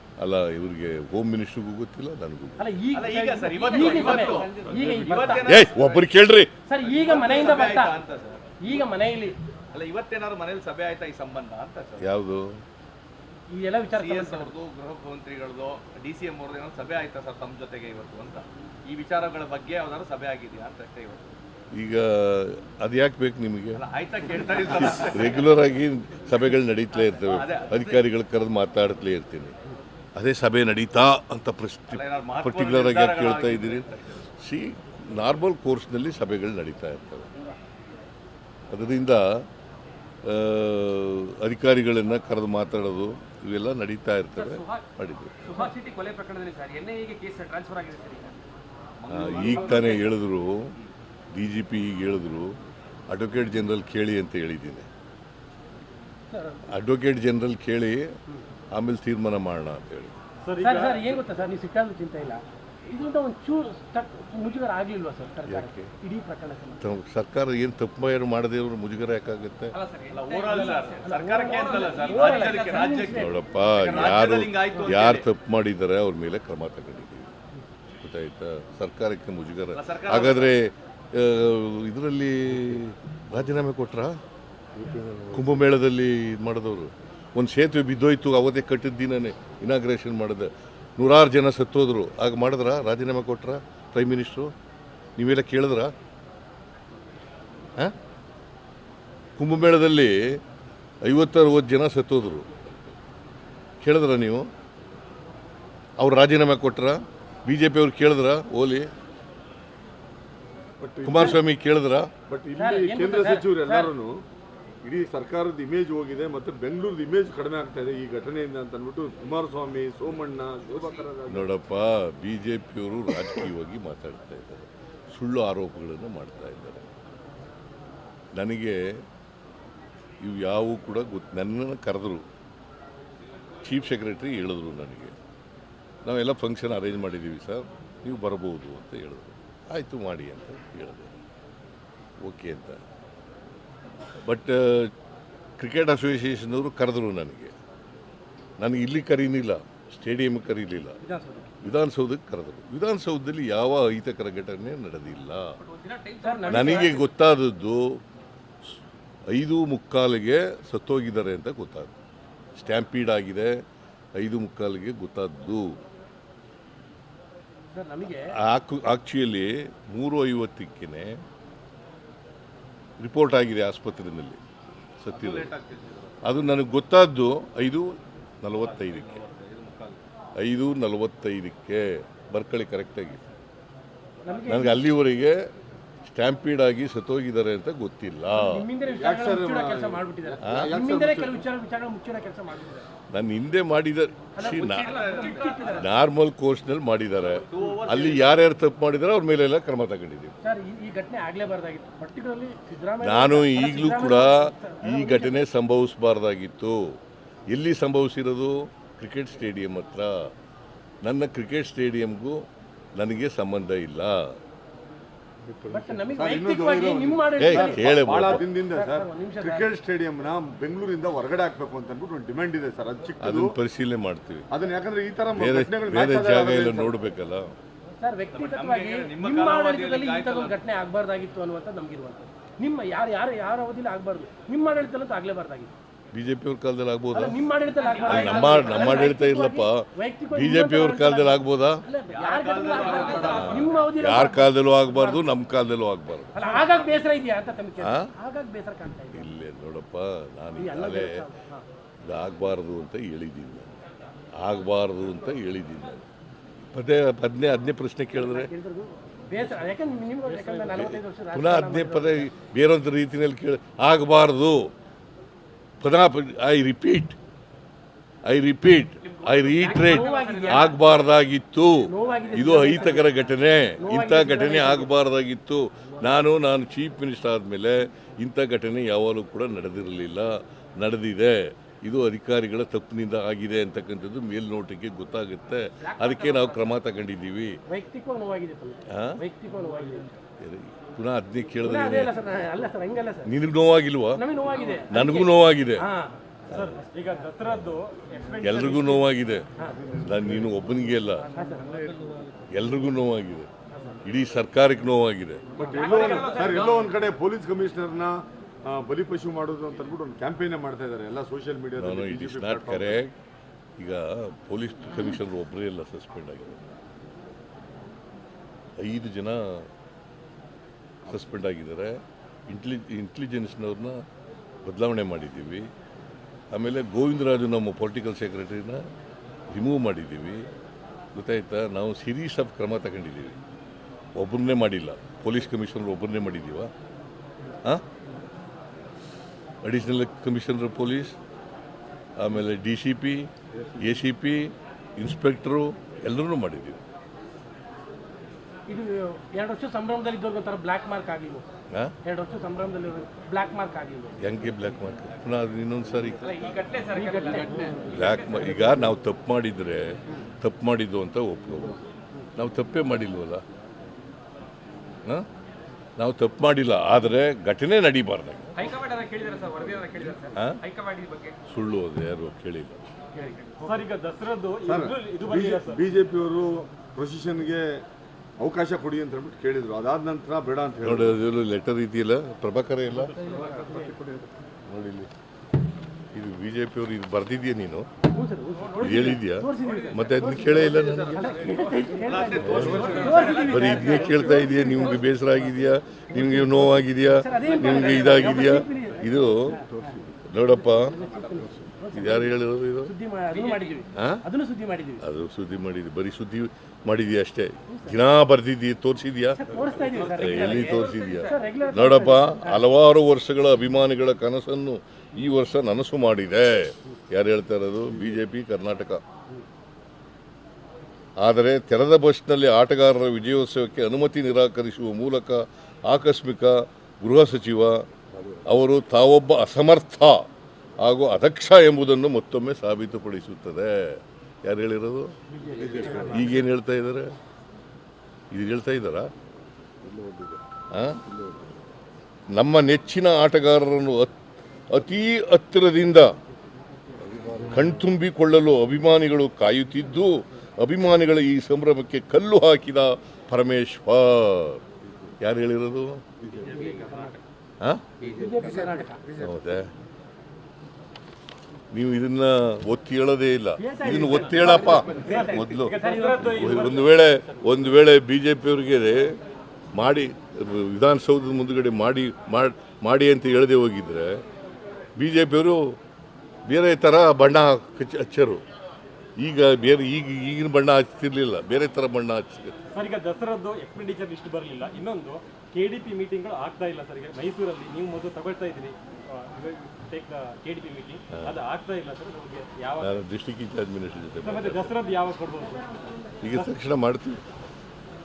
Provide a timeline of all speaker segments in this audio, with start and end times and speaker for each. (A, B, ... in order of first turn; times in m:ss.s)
0:00.2-0:02.7 A
0:02.6-0:05.6 B
0:02.9-0:06.1 C
0:03.6-0:05.2 D
0:05.4-0:06.5 A
0:06.6-0:08.0 B
0:06.8-0:08.5 C
0:08.6-0:09.4 B
0:09.7-0:12.1 C
0:12.0-0:12.5 A
0:13.5-0:14.5 B
0:13.9-0:21.4 C
0:21.7-0:23.8 A
0:23.8-0:25.5 C
0:24.8-0:29.5 A
0:27.2-0:28.1 C
0:30.2-0:33.9 A
0:31.9-0:34.2 C
0:34.4-0:37.3 A
0:38.7-0:39.5 A
0:40.2-0:45.6 A
0:44.3-0:44.9 D
0:45.4-0:48.4 D
0:49.0-0:50.1 C
0:49.1-0:50.7 A
0:49.5-0:50.0 D
0:51.3-0:52.6 A
0:53.1-0:54.9 A
0:56.3-0:56.7 B
0:56.7-0:58.1 A
0:58.7-1:00.2 A
1:00.4-1:01.2 E
1:00.6-1:06.8 B
1:05.4-1:05.9 A
1:06.8-1:09.7 A
1:09.7-1:12.9 D
1:10.1-1:15.2 C
1:10.5-1:13.4 B
1:13.1-1:17.3 A
1:18.0-1:24.2 A
1:19.7-1:20.6 C
1:25.3-1:34.5 A
1:35.2-1:35.9 A
1:39.4-1:40.4 A
1:41.0-1:42.5 A
1:43.8-1:44.5 A
1:46.0-1:48.9 A
1:50.8-1:51.4 F
1:51.0-1:52.1 A
1:52.3-1:54.2 F
1:52.6-1:53.9 B
1:54.8-2:01.5 F
2:00.7-2:01.0 D
2:01.3-2:06.8 A
2:08.3-2:09.0 A
2:10.2-2:12.2 A
2:13.6-2:15.1 A
2:16.0-2:21.2 A
2:22.2-2:22.8 A
2:24.2-2:24.9 A
2:25.6-2:27.5 A
2:28.6-2:31.0 A
2:31.0-2:31.6 B
2:31.6-2:35.5 A
2:35.6-2:37.0 D
2:36.2-2:36.9 B
2:36.5-2:38.0 A
2:39.3-2:41.9 A
2:42.5-2:43.6 A
2:44.2-2:45.8 A
2:47.7-2:48.3 B
2:48.0-2:51.2 A
2:53.0-2:54.4 A
2:55.0-2:55.5 A
2:55.1-2:56.5 C
2:56.2-2:59.2 A
2:58.6-3:00.0 C
3:00.4-3:03.2 A
3:04.2-3:04.8 B
3:04.4-3:05.4 A
3:06.0-3:08.7 A
3:08.3-3:12.8 B
3:08.9-3:11.4 F
3:10.4-3:10.7 A
3:13.1-3:15.1 A
3:14.3-3:15.9 B
3:14.4-3:15.7 C
3:14.8-3:15.8 D
3:15.7-3:20.4 A
3:17.2-3:18.3 C
3:20.4-3:25.4 B
3:23.0-3:30.3 A
3:31.0-3:32.4 A
3:33.0-3:34.4 A
3:35.5-3:43.6 F
3:35.7-3:39.7 B
3:37.4-3:38.4 A
3:43.2-3:44.5 A
3:44.5-3:46.9 F
3:45.3-3:47.5 A
3:48.0-3:55.7 B
3:48.3-3:50.6 C
3:56.1-3:57.4 A
3:57.1-4:05.2 B
3:57.8-3:59.0 D
3:58.0-4:01.8 A
4:02.1-4:03.8 C
4:02.7-4:03.6 D
4:03.3-4:06.4 A
4:06.4-4:09.3 B
4:07.8-4:08.1 A
4:09.1-4:11.3 A
4:10.6-4:11.6 B
4:12.0-4:13.8 A
4:14.4-4:16.0 A
4:16.7-4:18.5 A
4:18.1-4:22.3 B
4:20.3-4:20.6 E
4:20.7-4:24.7 A
4:25.8-4:27.2 A
4:28.2-4:47.6 A
4:29.0-4:30.9 D
4:29.8-4:30.7 B
4:31.8-4:33.1 B
4:33.8-4:34.9 B
4:45.8-4:46.8 D
4:47.7-4:50.1 B
4:48.9-4:49.2 A
4:50.4-4:52.1 A
4:51.6-4:53.3 B
4:53.2-4:54.2 A
4:54.1-4:56.2 B
4:54.9-4:55.9 A
4:56.5-4:56.8 A
4:56.5-4:59.0 E
4:58.4-4:59.4 A
5:00.0-5:01.3 A
5:01.3-5:01.6 B
5:02.5-5:03.5 A
5:03.7-5:04.0 B
5:04.0-5:05.5 A
5:05.6-5:13.0 F
5:05.6-5:06.9 D
5:05.8-5:06.9 C
5:11.8-5:13.1 A
5:13.8-5:16.7 A
5:18.8-5:19.7 A
5:21.1-5:24.0 A
5:24.6-5:25.7 A
5:26.5-5:28.8 A
5:29.5-5:30.5 A
5:31.1-5:33.4 A
5:34.2-5:36.7 A
5:39.6-5:41.2 A
5:42.2-5:46.8 A
5:48.7-5:51.5 B
5:52.0-5:54.2 B
5:54.2-5:56.3 A
5:56.2-5:58.7 D
5:56.9-5:57.8 B
5:57.9-6:01.8 A
6:02.4-6:03.4 A
6:06.0-6:08.5 A
6:08.5-6:11.4 D
6:10.3-6:10.6 A
6:11.5-6:12.8 A
6:13.2-6:13.7 B
6:13.6-6:15.8 E
6:14.6-6:17.8 F
6:18.4-6:21.2 F
6:20.8-6:23.1 A
6:23.5-6:23.9 F
6:24.7-6:25.1 A
6:26.1-6:27.9 A
6:28.1-6:35.0 B
6:28.8-6:31.4 A
6:29.6-6:30.0 D
6:30.6-6:33.6 C
6:32.4-6:32.9 A
6:32.7-6:34.0 D
6:33.4-6:39.6 A
6:37.1-6:40.0 B
6:37.6-6:38.1 C
6:40.3-6:41.0 A
6:40.7-6:45.0 B
6:41.9-6:42.9 A
6:43.3-6:43.8 D
6:44.0-6:44.2 A
6:45.0-6:59.0 A
6:47.7-6:48.0 B
6:49.4-6:52.6 B
6:49.8-6:51.5 D
7:01.2-7:07.8 A
7:08.4-7:10.3 A
7:10.8-7:15.1 A
7:15.5-7:16.0 B
7:15.6-7:16.4 F
7:15.8-7:17.1 A
7:18.3-7:19.1 A
7:19.9-7:20.2 F
7:20.7-7:21.0 A
7:22.3-7:24.1 A
7:24.7-7:26.1 A
7:27.4-7:34.6 A
7:35.2-7:36.0 A
7:36.4-7:37.1 B
7:36.5-7:37.1 C
7:37.6-7:37.8 A
7:38.0-7:39.0 B
7:39.2-7:39.7 A
7:41.7-7:49.2 A
7:43.6-7:46.8 B
7:44.7-7:47.2 E
7:49.7-7:54.2 A
7:55.0-7:55.8 A
7:56.4-7:58.4 A
7:59.2-8:02.6 A
8:02.7-8:13.0 E
8:12.8-8:14.8 A
8:14.2-8:15.6 E
8:16.2-8:17.2 A